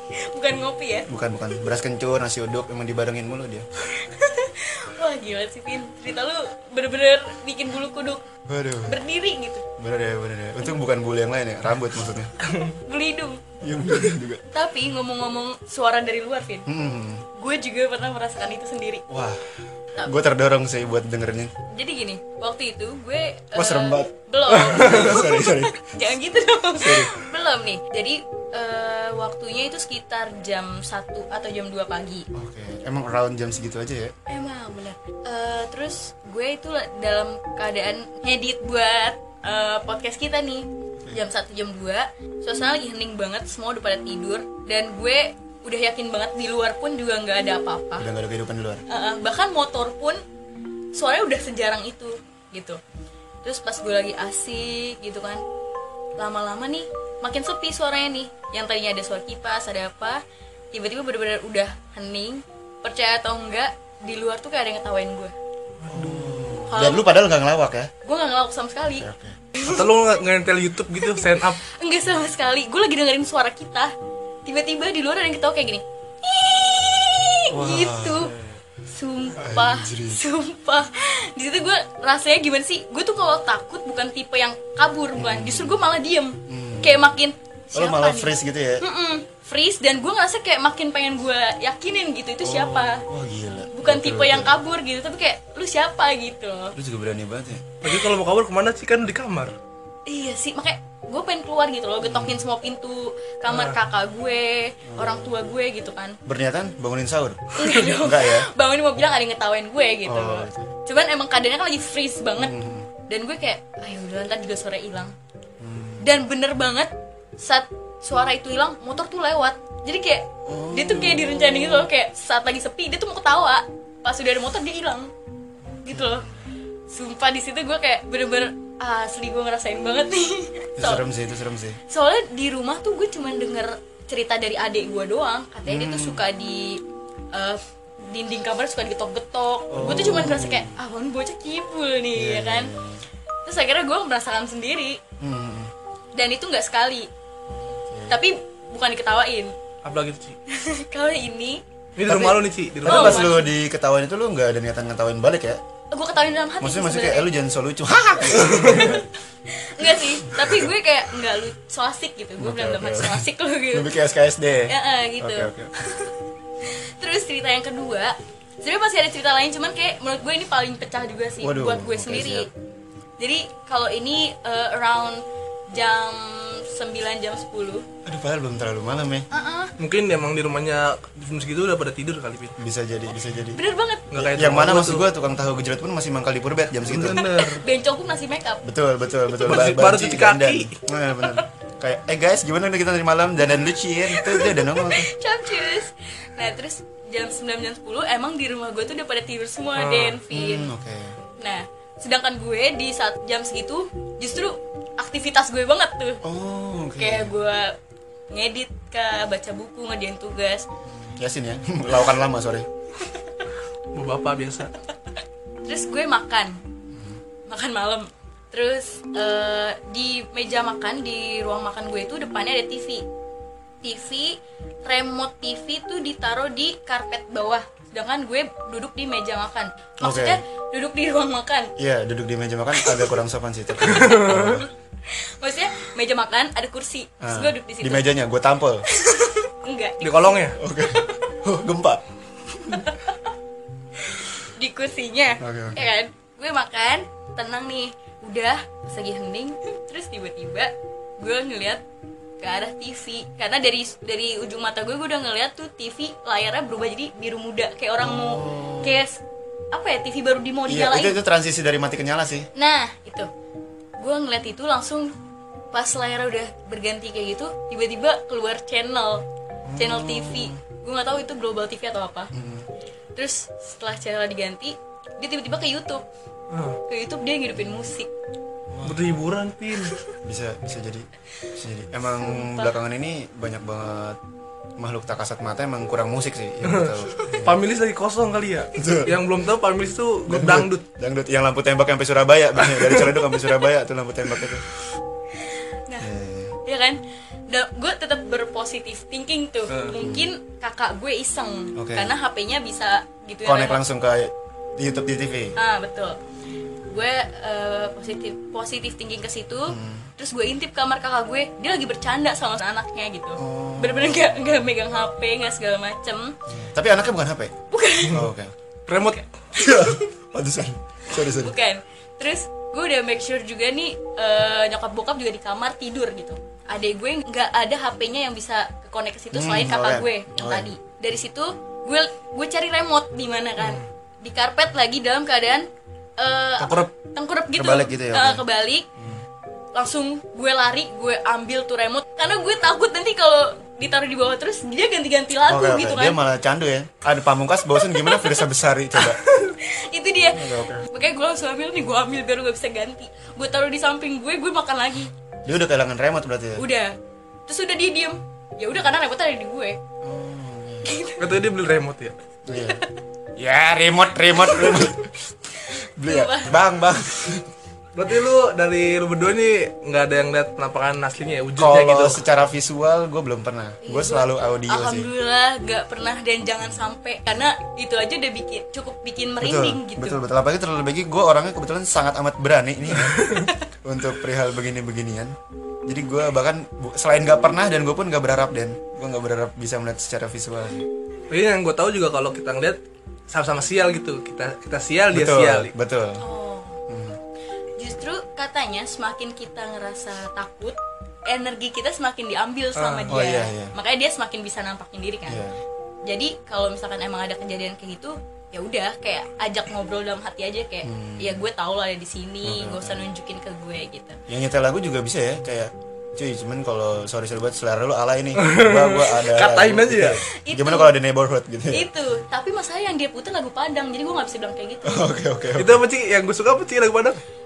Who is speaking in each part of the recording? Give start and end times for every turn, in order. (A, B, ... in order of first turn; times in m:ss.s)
0:00.1-0:01.1 A
0:01.1-0:03.6 B
0:03.9-0:08.2 A
0:08.4-0:09.0 B
0:08.9-0:09.6 A
0:09.8-0:12.3 B
0:12.8-0:13.4 A
0:13.6-0:14.4 B
0:14.5-0:16.7 A
0:16.6-0:17.2 B
0:17.3-0:19.0 A
0:19.1-0:21.5 B
0:21.7-0:32.3 A
0:23.6-0:25.9 B
0:24.8-0:25.1 C
0:26.8-0:27.2 B
0:32.3-0:34.1 B
0:34.3-0:48.1 A
0:48.0-0:48.8 B
0:48.9-0:50.2 A
0:50.9-0:52.8 A
0:53.4-0:55.4 A
0:56.2-1:05.3 A
1:05.8-1:06.7 C
1:05.9-1:07.9 B
1:06.7-1:07.1 A
1:08.0-1:09.9 A
1:09.0-1:09.4 B
1:09.6-1:11.6 C
1:11.0-1:13.9 A
1:14.4-1:18.3 A
1:17.5-1:18.3 B
1:18.2-1:18.6 C
1:18.9-1:33.0 A
1:19.4-1:20.2 B
1:25.1-1:25.8 B
1:26.4-1:27.1 B
1:27.7-1:28.8 B
1:32.4-1:34.6 B
1:33.7-1:36.8 A
1:36.8-1:37.6 B
1:37.8-1:39.6 C
1:40.1-1:46.2 A
1:42.0-1:42.4 B
1:43.5-1:43.8 C
1:44.9-1:45.3 B
1:46.2-1:48.5 B
1:47.6-1:52.6 A
1:50.0-1:50.7 B
1:52.4-1:52.9 B
1:53.1-1:55.1 A
1:55.6-1:56.1 B
1:56.0-2:05.1 A
2:00.4-2:01.9 B
2:05.8-2:06.4 B
2:05.8-2:06.3 A
2:06.9-2:11.0 A
2:10.8-2:11.8 B
2:11.9-2:16.8 A
2:15.6-2:16.2 B
2:17.3-2:22.7 A
2:19.7-2:20.8 B
2:22.2-2:23.0 B
2:23.4-2:25.0 A
2:25.2-2:25.7 B
2:26.1-2:27.1 A
2:27.5-2:28.2 B
2:28.1-2:29.5 A
2:29.8-2:30.4 C
2:30.5-2:31.6 A
2:32.0-2:33.3 C
2:32.0-2:35.6 B
2:32.8-2:33.5 A
2:35.9-2:37.3 A
2:36.6-2:39.1 B
2:38.4-2:38.9 C
2:38.6-2:43.9 A
2:40.0-2:40.7 B
2:42.4-2:45.7 B
2:44.7-2:45.5 A
2:46.6-2:52.5 A
2:51.4-2:52.5 B
2:53.2-2:57.9 A
2:58.0-2:59.3 B
2:59.3-2:59.7 A
2:59.8-3:02.6 C
3:02.6-3:03.6 B
3:03.5-3:04.1 A
3:04.1-3:05.1 C
3:04.2-3:07.3 B
3:06.8-3:07.6 C
3:07.4-3:08.6 A
3:08.6-3:15.1 B
3:09.4-3:10.8 C
3:14.1-3:20.7 A
3:19.8-3:20.2 C
3:20.3-3:21.2 B
3:21.4-3:26.2 A
3:26.2-3:27.4 B
3:27.0-3:27.8 A
3:28.3-3:30.7 A
3:30.8-3:32.7 B
3:33.0-3:33.3 A
3:33.9-3:34.7 C
3:35.6-3:36.6 A
3:36.9-3:37.2 B
3:37.5-3:43.0 A
3:43.8-3:51.7 A
3:50.0-3:50.4 B
3:51.8-3:54.7 B
3:53.9-3:54.6 C
3:54.3-3:58.1 A
3:57.2-3:58.8 B
3:58.9-4:01.3 A
4:00.0-4:00.6 C
4:00.6-4:02.0 B
4:02.6-4:03.2 A
4:04.0-4:11.8 A
4:05.4-4:05.9 B
4:12.4-4:21.2 A
4:18.0-4:19.0 B
4:20.7-4:22.5 B
4:22.6-4:23.3 A
4:24.0-4:25.1 A
4:25.7-4:29.2 A
4:29.6-4:30.6 B
4:29.8-4:32.3 A
4:32.3-4:32.7 B
4:33.2-4:36.0 A
4:36.5-4:36.8 C
4:36.9-4:38.1 A
4:37.6-4:37.9 B
4:38.7-4:39.2 B
4:38.8-4:40.0 C
4:40.2-4:44.2 B
4:42.1-4:42.7 A
4:44.8-4:47.6 B
4:46.6-4:50.8 C
4:48.7-4:49.2 B
4:50.3-4:54.7 B
4:52.6-4:53.1 C
4:56.0-4:56.6 B
4:56.6-5:03.8 A
4:59.7-4:59.9 C
5:00.0-5:00.3 B
5:01.8-5:02.1 B
5:03.4-5:05.6 B
5:05.6-5:06.2 A
5:06.9-5:16.4 A
5:09.7-5:10.1 B
5:13.4-5:14.3 B
5:16.5-5:17.5 B
5:17.7-5:18.2 A
5:18.1-5:18.5 B
5:18.9-5:19.2 C
5:19.5-5:20.0 A
5:19.6-5:21.6 B
5:21.1-5:38.9 A
5:29.3-5:30.7 B
5:33.6-5:33.8 C
5:36.6-5:36.9 C
5:37.5-5:38.4 B
5:39.0-5:39.2 B
5:39.7-5:46.2 A
5:45.5-5:49.2 B
5:47.9-5:48.4 A
5:49.0-5:55.1 A
5:50.3-5:50.8 B
5:55.4-5:56.6 B
5:56.6-5:56.9 A
5:57.5-5:59.8 A
6:00.0-6:01.0 B
6:00.8-6:01.4 A
6:01.2-6:02.2 C
6:02.4-6:02.8 B
6:02.6-6:02.9 A
6:03.4-6:07.5 B
6:04.4-6:04.9 A
6:05.6-6:06.6 A
6:07.9-6:12.2 C
6:11.6-6:15.1 B
6:13.8-6:20.2 A
6:19.4-6:25.3 B
6:23.0-6:23.5 C
6:25.8-6:30.9 B
6:31.3-6:32.8 C
6:33.3-6:35.7 C
6:35.1-6:36.2 B
6:36.2-6:36.8 A
6:36.9-6:37.2 B
6:37.8-6:45.4 A
6:42.8-6:43.2 C
6:43.1-6:43.7 B
6:45.3-6:45.6 B
6:46.1-6:54.2 A
6:50.8-6:51.4 B
6:52.4-6:53.0 B
6:54.3-7:01.9 B
6:58.4-7:00.2 C
7:00.4-7:00.9 A
7:01.7-7:05.1 A
7:04.8-7:05.8 B
7:05.6-7:07.2 C